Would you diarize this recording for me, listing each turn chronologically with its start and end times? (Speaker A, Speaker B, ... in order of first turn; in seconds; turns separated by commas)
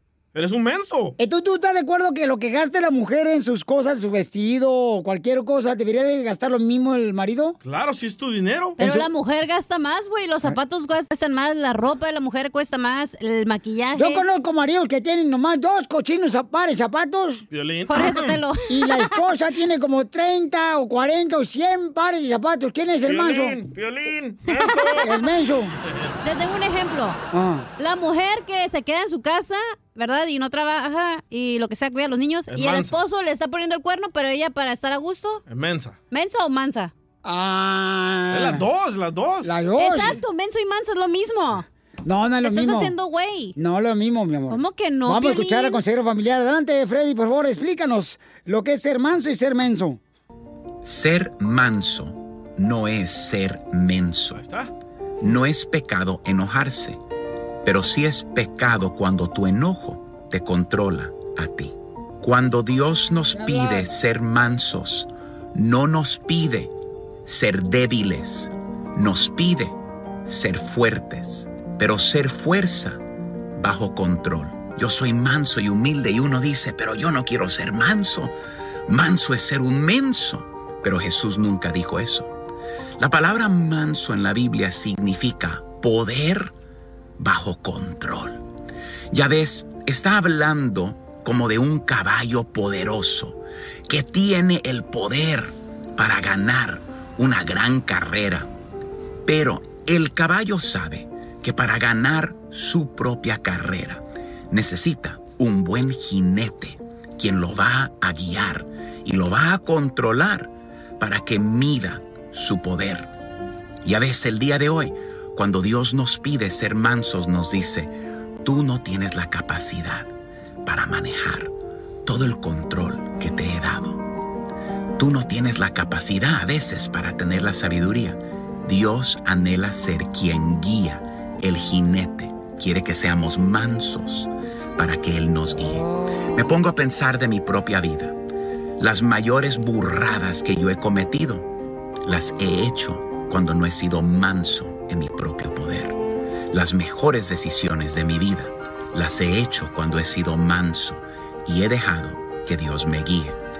Speaker A: 0.3-1.1, Speaker B: 1.2-7.6, Speaker A: 7.6-8.8, Speaker B: 8.8-9.1, Speaker C: 8.8-14.2, Speaker B: 13.9-17.4, Speaker A: 17.5-18.4, Speaker C: 17.9-19.1, Speaker B: 18.7-23.6, Speaker A: 23.0-25.1, Speaker C: 24.5-25.0, Speaker B: 25.0-25.7, Speaker C: 26.2-27.2, Speaker B: 27.3-27.7, Speaker C: 27.8-35.4, Speaker A: 32.5-33.0, Speaker A: 35.5-36.0, Speaker C: 36.1-36.9, Speaker B: 37.2-38.6, Speaker A: 38.3-39.5, Speaker B: 39.4-40.2, Speaker C: 39.8-41.6, Speaker B: 42.0-42.9, Speaker C: 42.4-43.5, Speaker B: 43.5-50.0, Speaker C: 44.5-45.8, Speaker D: 50.8-54.4, Speaker A: 54.3-54.7, Speaker D: 55.2-57.0, Speaker D: 57.6-66.7, Speaker B: 63.3-63.9, Speaker D: 67.2-73.0, Speaker D: 73.5-78.3, Speaker D: 78.9-82.3, Speaker D: 83.0-86.5, Speaker D: 87.2-88.4, Speaker D: 89.1-98.5, Speaker D: 99.2-113.1, Speaker D: 113.8-120.1, Speaker D: 120.6-121.5, Speaker D: 122.0-124.0, Speaker D: 125.0-138.2, Speaker D: 138.8-141.5, Speaker D: 142.0-146.0, Speaker D: 146.5-153.4